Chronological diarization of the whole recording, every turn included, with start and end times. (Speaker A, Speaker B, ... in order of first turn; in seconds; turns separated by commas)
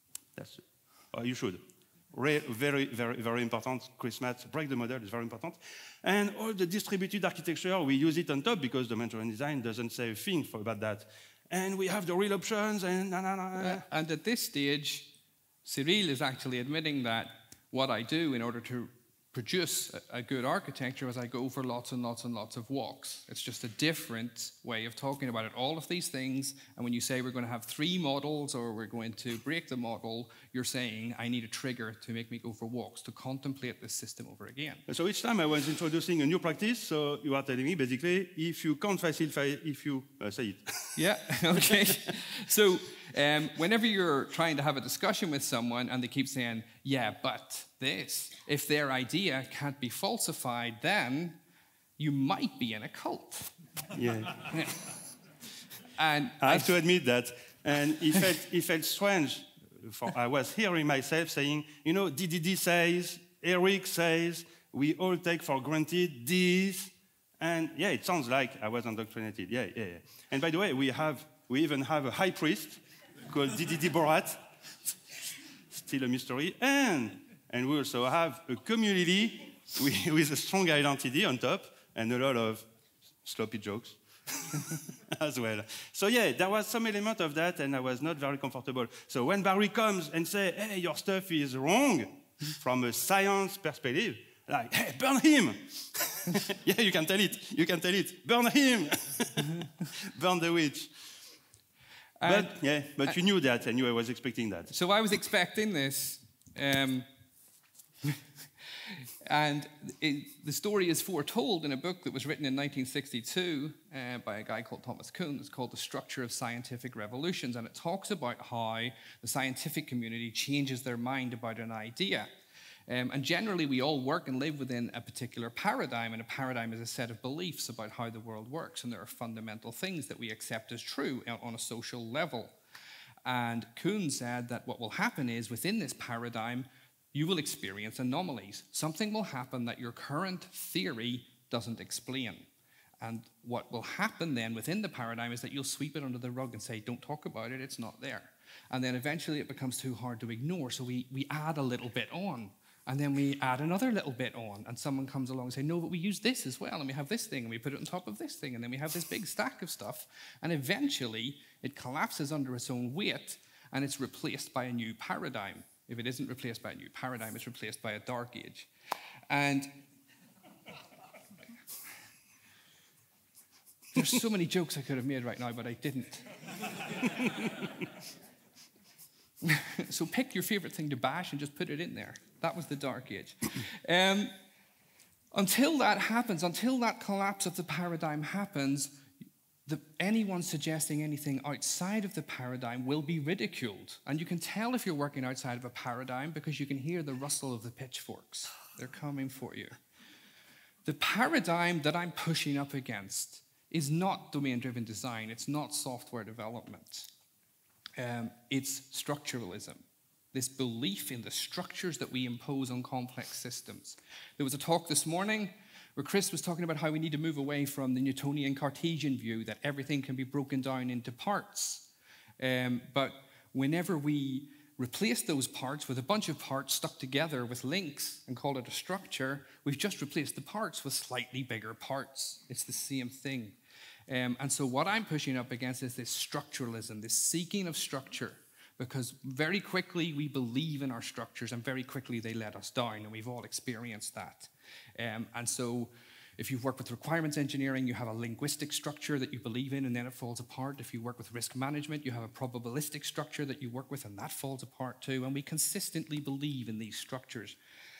Speaker A: 0.4-13.9, Speaker B: 13.6-34.9, Speaker A: 34.9-41.0, Speaker B: 41.0-51.4, Speaker A: 41.6-41.9, Speaker B: 52.0-53.5, Speaker A: 53.9-54.6, Speaker B: 54.5-54.8, Speaker B: 56.0-56.7, Speaker A: 56.4-75.0, Speaker A: 75.7-82.6, Speaker A: 83.2-100.9, Speaker B: 102.2-103.1, Speaker A: 102.2-104.7, Speaker B: 104.7-107.1, Speaker B: 108.8-122.3, Speaker B: 122.9-132.6, Speaker B: 133.2-142.5, Speaker B: 143.0-168.7, Speaker B: 169.3-169.8, Speaker B: 173.9-176.3, Speaker B: 177.0-177.7, Speaker B: 179.4-184.3, Speaker B: 185.3-189.1, Speaker B: 189.7-199.8, Speaker B: 200.9-207.1, Speaker B: 208.0-209.8, Speaker B: 210.3-257.6